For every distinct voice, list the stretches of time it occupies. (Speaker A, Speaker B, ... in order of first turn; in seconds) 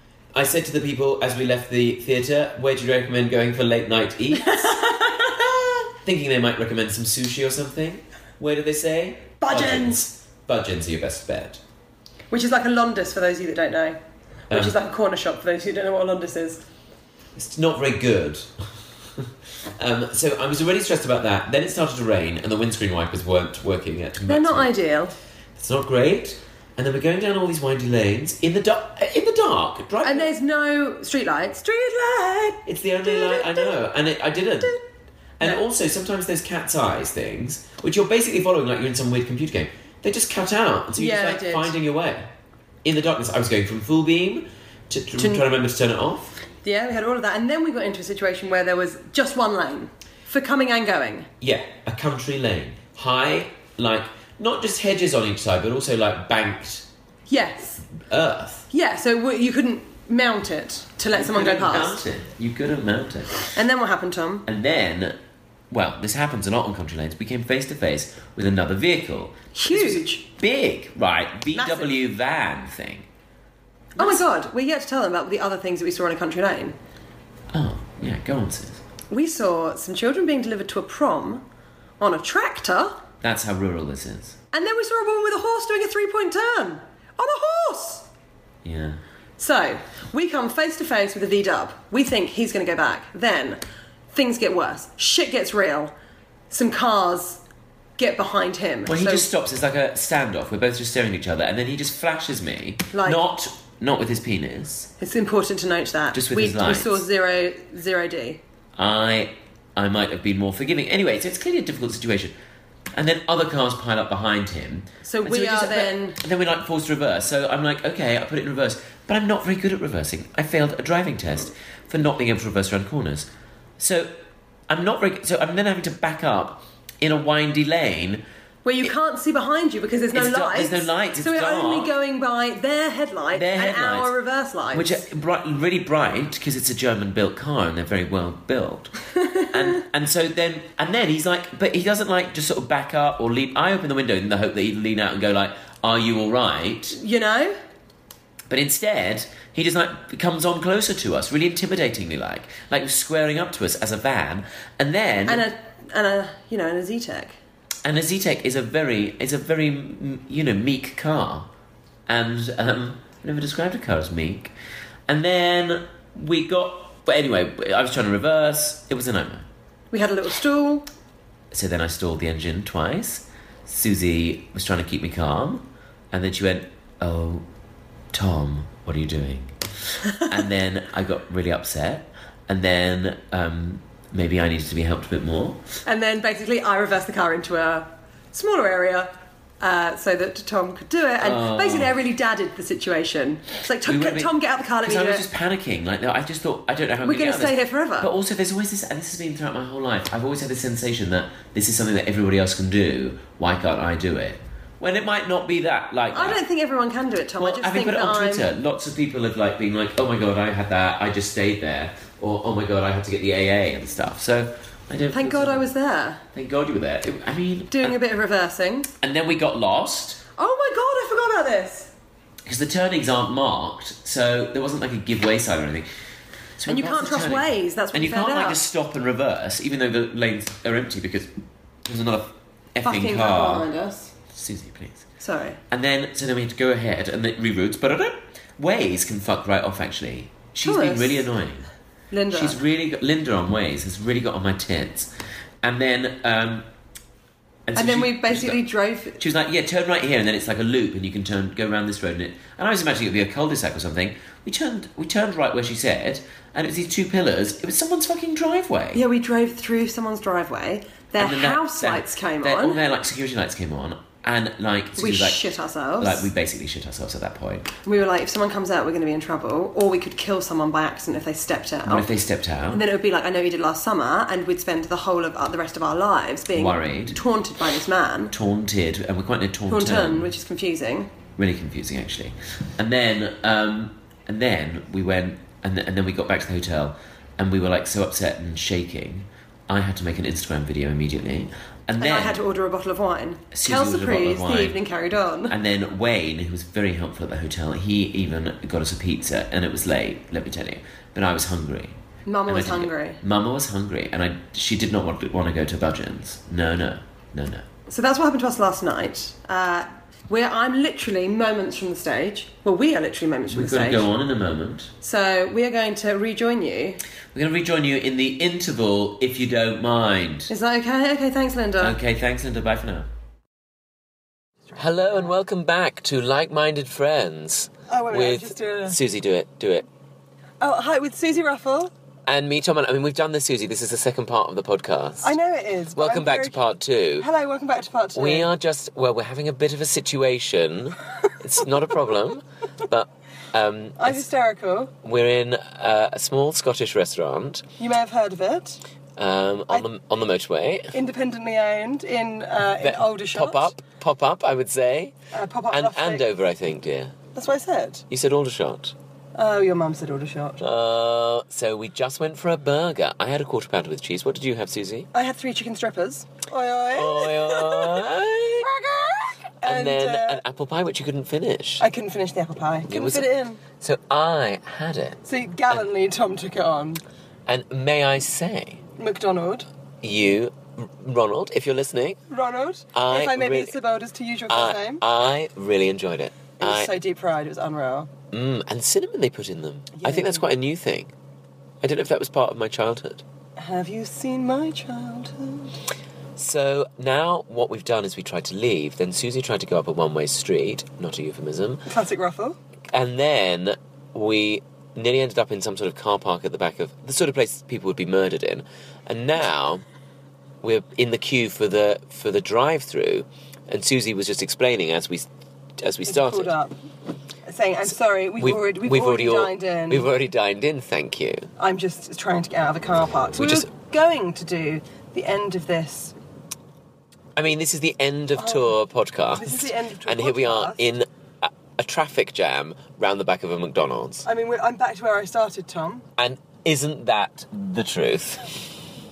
Speaker A: 0.3-11.6, 14.5-14.8, 17.4-18.6, 19.1-24.7, 25.6-30.3, 32.6-34.8, 35.4-42.3, 42.8-46.4, 51.4-56.9, 57.9-58.7, 61.1-63.5, 64.5-65.2, 65.7-73.0, 77.5-78.8, 83.2-84.4, 88.6-89.0, 98.8-104.9, 106.1-107.0, 108.8-112.3, 112.9-124.1, 124.7-128.2, 130.1-131.9, 133.3-134.1, 134.7-138.9, 139.5-147.0, 148.5-155.4, 157.8-161.5, 162.1-164.5, 165.1-169.4, 171.5-177.4, 178.1-179.5, 180.1-185.6, 191.2-191.9, 193.8-206.4, 207.4-215.7, 216.3-218.0, 219.0-220.2, 222.4-225.9, 226.6-231.3, 231.8-233.7, 234.3-235.1, 235.7-241.7, 242.3-246.6, 247.7-248.6, 249.2-259.0, 261.2-267.7, 271.9-272.8, 276.5-277.2, 278.3-280.3, 281.4-292.4, 293.5-294.8, 295.5-307.6, 313.5-314.9, 317.3-320.5, 321.8-323.1, 324.8-329.9, 332.2-335.3, 335.9-337.3, 338.1-344.2, 345.0-347.7, 349.2-350.9, 352.8-355.1, 355.7-357.1, 358.1-358.9, 360.6-365.1, 366.9-368.7, 369.6-371.8, 372.9-375.2, 377.5-378.8, 380.0-382.2, 382.9-383.8, 384.5-386.9, 388.3-391.1, 391.8-393.2, 396.4-401.9, 402.9-409.8, 410.6-416.5, 418.4-421.5, 423.4-423.7, 427.4-434.2, 436.2-438.5
Speaker B: 4.3-5.7, 9.4-10.0, 12.3-14.0, 14.5-16.6, 24.3-25.1, 30.0-33.8, 41.0-41.7, 45.2-45.5, 46.6-51.3, 57.3-57.8, 58.7-62.0, 63.5-64.4, 69.5-70.2, 71.5-72.0, 74.0-76.8, 79.1-81.4, 82.0-83.0, 84.5-88.1, 89.4-95.9, 96.5-97.4, 98.0-99.3, 102.9-103.2, 105.0-108.4, 115.0-116.2, 128.6-135.0, 139.3-139.8, 146.9-147.6, 155.2-157.4, 169.9-170.9, 185.8-195.3, 197.0-198.1, 206.1-208.5, 215.1-216.2, 217.7-218.9, 220.4-221.9, 226.7-228.6, 232.8-234.1, 235.2-235.6, 240.6-241.3, 242.1-242.6, 247.7-249.2, 258.9-262.8, 265.0-266.3, 267.8-272.1, 272.7-278.3, 279.7-281.1, 292.0-295.5, 302.2-303.2, 307.9-314.1, 315.0-317.0, 320.5-322.0, 327.9-329.0, 330.6-331.9, 335.2-336.6, 337.2-338.5, 344.0-344.9, 347.8-348.8, 350.9-353.7, 355.3-356.2, 357.3-358.1, 359.3-360.6, 365.1-370.4, 371.8-373.6, 375.2-377.0, 379.0-379.7, 382.3-385.0, 386.6-388.1, 389.9-390.5, 393.6-395.8, 401.9-402.6, 416.1-416.7, 417.4-420.1, 421.6-426.1, 428.4-428.7, 429.3-430.8, 434.2-436.0